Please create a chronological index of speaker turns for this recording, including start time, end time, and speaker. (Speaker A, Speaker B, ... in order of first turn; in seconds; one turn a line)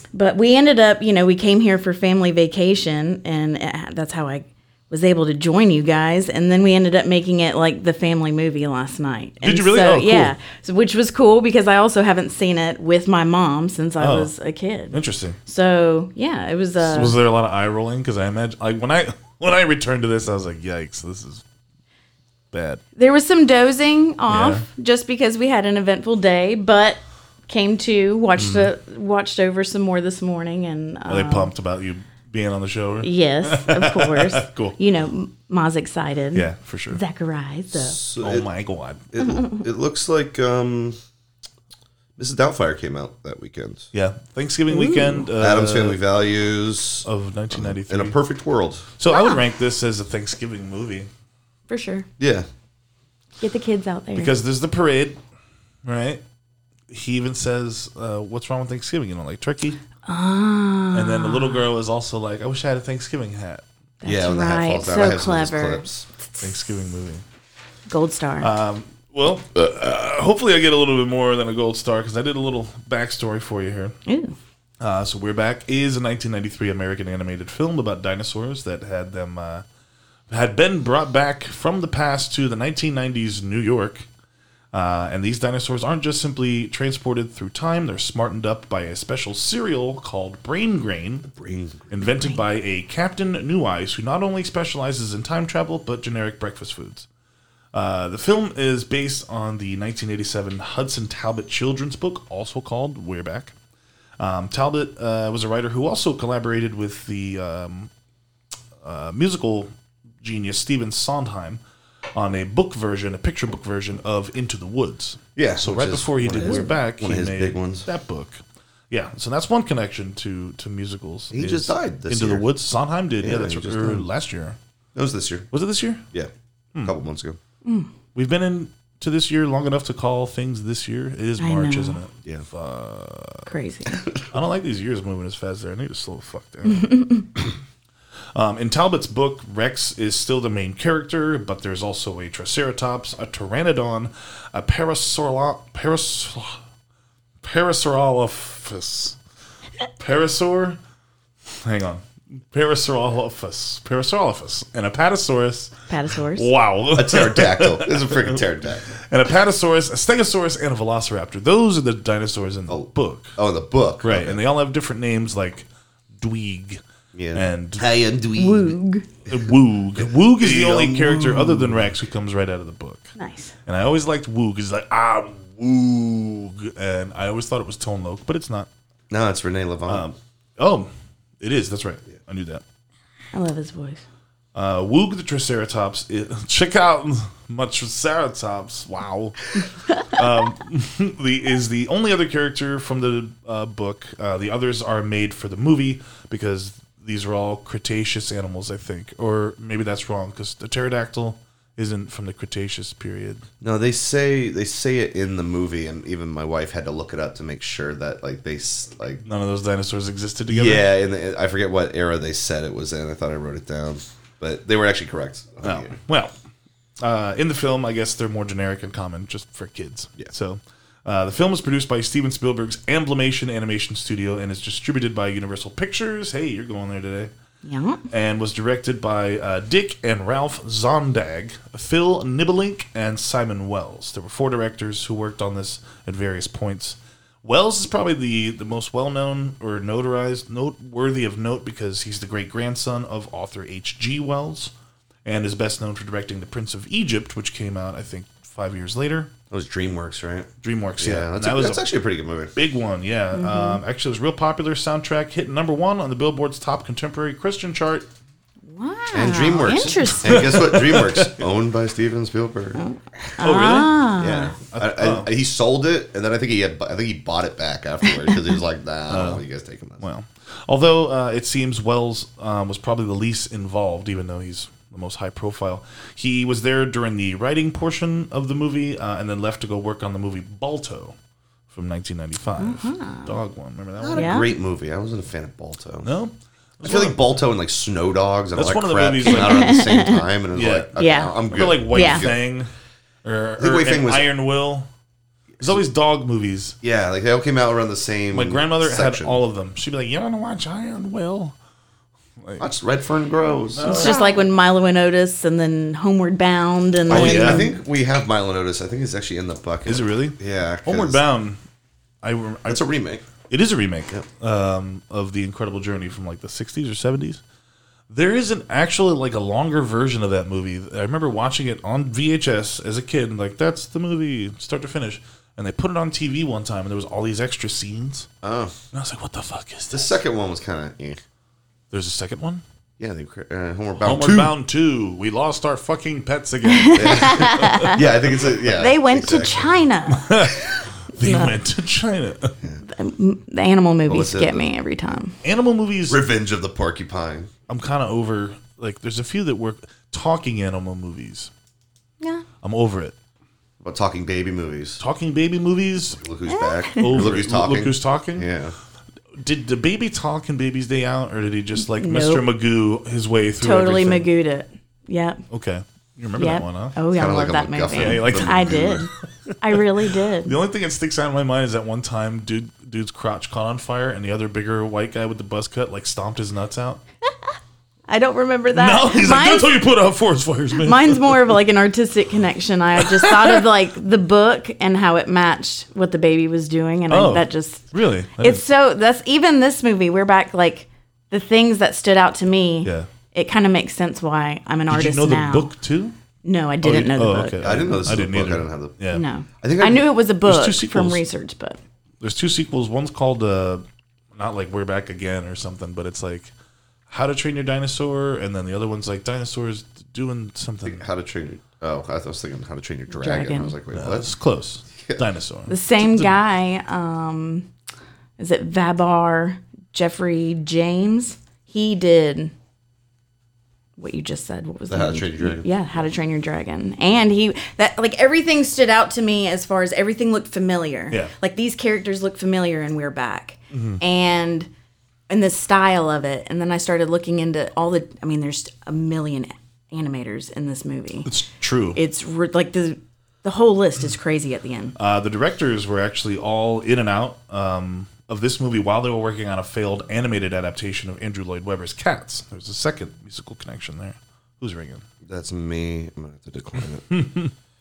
Speaker A: 0.1-17.2
Speaker B: 9.4-10.3
Speaker B: 14.0-14.3
Speaker B: 14.9-15.4
Speaker B: 16.8-21.4
Speaker B: 22.5-22.8
Speaker A: 23.0-31.5
Speaker B: 24.3-24.7
Speaker B: 28.4-28.7
Speaker B: 31.1-34.8
Speaker A: 33.0-38.0
Speaker B: 36.3-37.0
Speaker C: 37.7-38.5
Speaker B: 38.2-39.1
Speaker C: 39.1-41.0
Speaker A: 39.2-39.6
Speaker C: 42.2-43.9
Speaker B: 43.9-46.0
Speaker A: 44.7-45.2
Speaker C: 45.4-48.9
Speaker B: 47.0-48.2
Speaker B: 49.0-51.1
Speaker A: 49.1-49.4
Speaker A: 51.7-52.1
Speaker C: 52.2-52.5
Speaker A: 53.4-54.3
Speaker B: 54.1-55.2
Speaker B: 55.9-56.2
Speaker B: 56.9-59.8
Speaker A: 60.0-61.6
Speaker B: 60.9-63.6
Speaker A: 64.0-66.5
Speaker C: 64.0-66.1
Speaker B: 66.4-67.2
Speaker A: 67.9-68.5
Speaker B: 68.4-74.0
Speaker A: 74.1-74.4
Speaker B: 74.8-79.7
Speaker B: 80.3-84.1
Speaker B: 84.7-91.3
Speaker C: 91.3-91.9
Speaker B: 91.9-97.1
Speaker B: 97.7-103.5
Speaker B: 104.2-107.9
Speaker B: 108.8-111.6
Speaker B: 112.2-124.6
Speaker C: 115.4-117.9
Speaker C: 121.3-122.4
Speaker C: 123.2-124.0
Speaker C: 125.0-125.5
Speaker B: 125.5-126.0
Speaker C: 126.8-127.4
Speaker A: 127.7-127.9
Speaker B: 128.2-133.5
Speaker A: 131.4-132.0
Speaker A: 133.5-134.0
Speaker C: 133.9-134.2
Speaker B: 134.3-137.5
Speaker A: 136.7-137.2
Speaker B: 138.3-146.6
Speaker B: 147.4-149.2
Speaker B: 150.0-150.8
Speaker B: 151.6-155.7
Speaker A: 155.9-156.5
Speaker B: 156.3-158.4
Speaker C: 156.9-158.9
Speaker B: 159.0-163.4
Speaker C: 162.7-164.4
Speaker B: 164.0-165.7
Speaker B: 166.2-166.8
Speaker C: 167.1-168.8
Speaker B: 167.3-167.9
Speaker A: 168.4-169.1
Speaker B: 169.3-173.1
Speaker C: 170.0-171.9
Speaker A: 173.2-173.5
Speaker B: 173.7-178.7
Speaker C: 179.1-180.1
Speaker B: 179.9-180.9
Speaker B: 181.4-182.6
Speaker A: 183.3-184.0
Speaker B: 184.6-203.4
Speaker C: 203.6-209.2
Speaker B: 209.2-210.9
Speaker C: 210.5-216.0
Speaker B: 215.6-216.3
Speaker B: 217.0-227.3
Speaker A: 227.6-228.0
Speaker B: 228.1-244.7
Speaker B: 245.2-249.3
Speaker C: 249.5-252.5
Speaker B: 250.6-251.9
Speaker B: 252.6-258.1
Speaker A: 253.3-253.8
Speaker A: 258.7-260.4
Speaker C: 259.1-262.8
Speaker B: 260.0-261.4
Speaker A: 262.8-264.6
Speaker B: 263.4-265.3
Speaker C: 264.2-270.1
Speaker B: 269.1-269.4
Speaker B: 270.0-281.2
Speaker B: 281.7-284.5
Speaker A: 282.6-283.3
Speaker C: 284.0-286.1
Speaker A: 284.1-284.5
Speaker B: 286.0-287.2
Speaker C: 286.8-292.4
Speaker B: 288.6-290.0
Speaker A: 289.2-290.2
Speaker B: 290.5-290.9
Speaker A: 291.0-291.4
Speaker B: 291.5-292.7
Speaker A: 291.9-292.3
Speaker B: 293.2-294.9
Speaker C: 293.6-294.3
Speaker B: 295.6-296.8
Speaker C: 296.8-299.4
Speaker B: 298.3-301.6
Speaker B: 302.4-302.7
Speaker C: 302.6-304.2
Speaker B: 303.8-304.3
Speaker A: 303.8-307.7
Speaker C: 307.1-311.2
Speaker B: 307.1-307.7
Speaker B: 309.9-311.6
Speaker B: 312.2-312.8
Speaker C: 312.7-313.2
Speaker B: 313.5-317.4
Speaker B: 318.1-328.3
Speaker C: 328.4-328.8
Speaker B: 328.9-330.1
Speaker C: 329.9-331.2
Speaker B: 331.9-332.6
Speaker C: 333.0-334.5
Speaker B: 334.0-337.9
Speaker A: 336.7-338.0
Speaker C: 337.0-339.8
Speaker A: 338.7-340.4
Speaker B: 340.1-342.6
Speaker A: 341.2-341.5
Speaker A: 342.8-345.4
Speaker C: 344.1-344.6
Speaker B: 345.4-346.2
Speaker C: 346.1-347.5
Speaker B: 347.7-351.5
Speaker B: 352.6-353.1
Speaker C: 353.8-355.0
Speaker B: 355.0-356.2
Speaker C: 356.2-358.8
Speaker A: 356.5-357.1
Speaker B: 357.0-358.5
Speaker B: 359.4-364.3
Speaker A: 361.9-362.4
Speaker A: 363.6-365.4
Speaker B: 365.5-367.0
Speaker A: 366.4-369.1
Speaker C: 367.1-369.1
Speaker B: 367.9-369.0
Speaker A: 369.6-370.5
Speaker B: 370.4-377.0
Speaker A: 378.1-379.7
Speaker B: 378.7-381.6
Speaker A: 380.8-387.9
Speaker B: 383.0-383.6
Speaker B: 387.1-388.6
Speaker A: 388.4-395.7
Speaker B: 392.8-393.1
Speaker B: 394.9-396.1
Speaker A: 396.4-397.6
Speaker B: 396.8-399.2
Speaker C: 397.6-398.9
Speaker A: 399.1-401.8
Speaker C: 399.6-400.1
Speaker B: 400.4-401.2
Speaker B: 402.2-406.5
Speaker B: 407.1-411.1
Speaker C: 410.9-414.3
Speaker A: 413.1-413.8
Speaker B: 413.9-416.3
Speaker A: 415.7-417.7
Speaker A: 418.4-422.5
Speaker A: 424.0-434.7
Speaker C: 424.9-425.7
Speaker B: 433.7-434.0
Speaker A: 435.3-441.3
Speaker B: 441.2-442.0
Speaker A: 441.9-444.9
Speaker B: 445.0-455.0
Speaker C: 455.2-457.1
Speaker B: 457.1-457.5